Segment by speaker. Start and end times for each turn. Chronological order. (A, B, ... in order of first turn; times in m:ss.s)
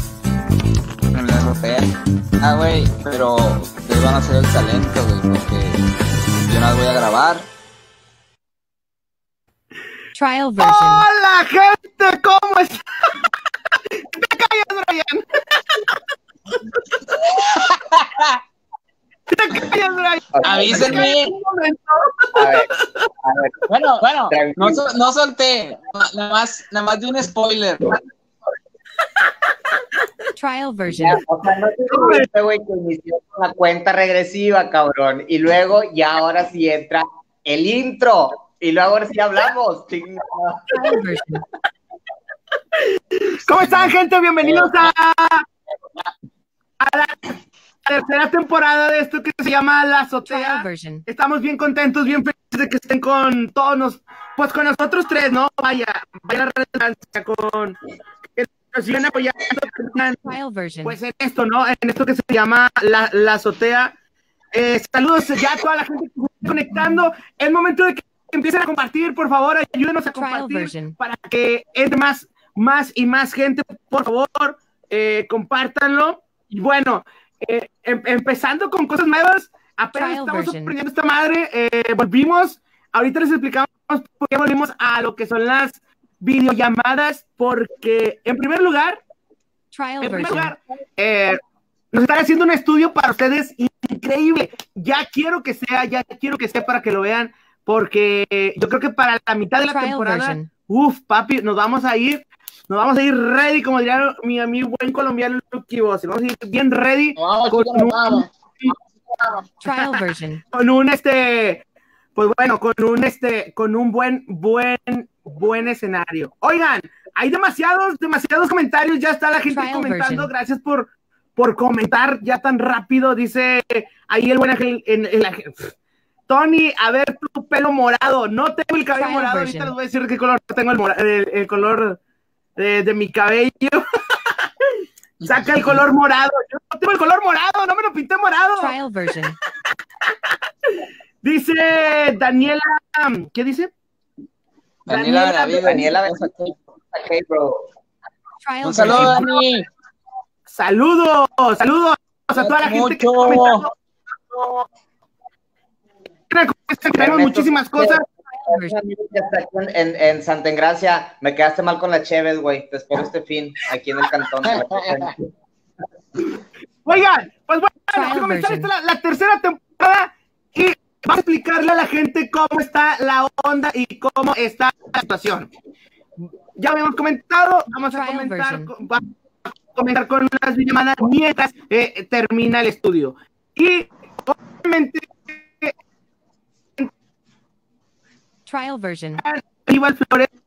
0:01.1-0:07.5 A
0:10.2-0:11.1 B
0:10.6-0:13.3 C
0:13.9-0:16.0 C
0:17.3-0:18.4 A
0:19.3-0:22.8 C
0:20.3-0:21.0 D
0:20.4-0:21.4 A
0:22.3-0:23.6 D
0:23.7-0:28.0 A
0:24.3-0:24.8 D
0:30.4-0:31.2 B
0:30.9-0:41.0 D
0:40.8-0:41.4 B
0:42.8-0:45.5 C
0:46.8-0:57.8 C
0:50.3-0:51.0 B
0:58.4-1:00.2 C
1:00.2-1:01.0 B
1:00.8-1:03.9 C
1:04.5-1:29.0 C
1:10.2-1:11.0 B
1:19.9-1:20.8 B
1:29.7-1:30.5 B
1:30.0-1:31.4 C
1:31.9-1:48.7 C
1:39.7-1:40.5 B
1:47.2-1:48.3 A
1:49.6-1:50.4 B
1:49.6-1:50.0 C
1:50.5-1:51.6 C
1:52.2-2:05.7 C
1:59.5-2:00.3 B
2:06.3-2:12.0 C
2:09.0-2:09.7 B
2:12.6-2:18.8 C
2:15.2-2:15.7 A
2:18.6-2:19.4 B
2:20.7-2:23.7 C
2:24.9-2:26.6 A
2:24.9-2:25.8 C
2:25.6-2:27.7 D
2:28.4-2:29.3 B
2:28.6-2:29.7 A
2:28.9-2:29.2 C
2:30.5-2:33.7 C
2:32.4-2:33.7 A
2:36.3-2:38.0 C
2:37.0-2:45.3 D
2:38.4-2:38.8 B
2:46.8-2:55.5 C
2:47.9-2:48.7 B
2:56.6-2:59.1 C
2:57.9-2:58.7 B
2:59.7-3:05.7 C
3:08.5-3:09.2 B
3:09.2-3:10.3 C